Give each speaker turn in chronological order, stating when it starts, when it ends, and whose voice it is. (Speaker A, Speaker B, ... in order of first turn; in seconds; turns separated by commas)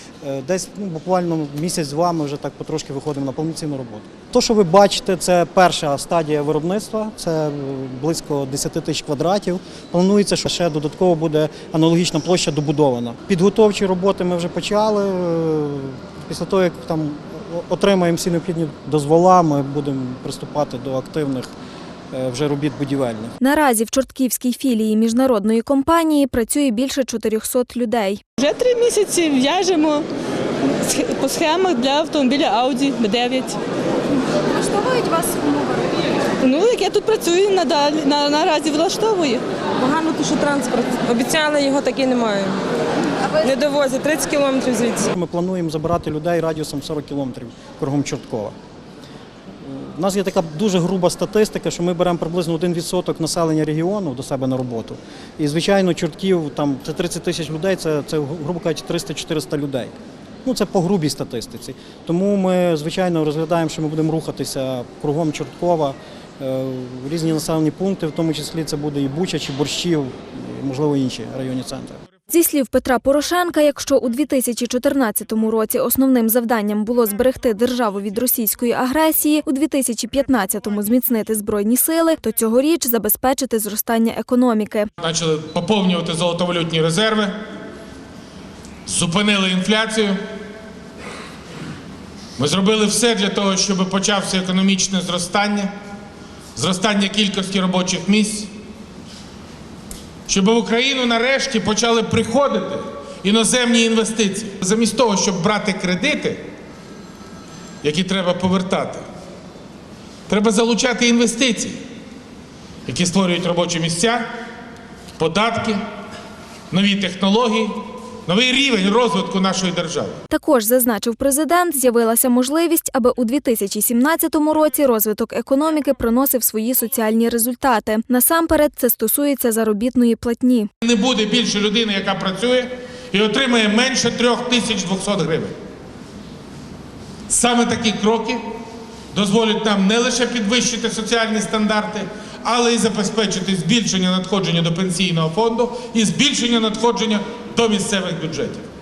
Speaker A: 0.2-21.5, Speaker A: 22.1-23.3, Speaker B: 23.4-28.2, Speaker C: 28.4-30.1, Speaker C: 30.8-33.6, Speaker D: 34.6-35.8, Speaker C: 35.2-35.5, Speaker C: 36.4-39.4, Speaker D: 39.8-42.6, Speaker D: 43.3-45.1, Speaker A: 45.0-48.5, Speaker A: 49.6-72.0, Speaker B: 72.3-84.9, Speaker E: 85.0-87.5, Speaker E: 88.9-90.2, Speaker E: 92.4-95.7, Speaker E: 96.5-98.5, Speaker E: 100.3-106.4, Speaker E: 107.8-109.1, Speaker E: 110.3-111.8, Speaker E: 112.9-114.3, Speaker E: 115.2-115.8, Speaker E: 116.7-120.2, Speaker B: 120.3-130.7, Speaker E: 130.8-135.5, Speaker E: 137.3-138.4, Speaker E: 139.1-148.7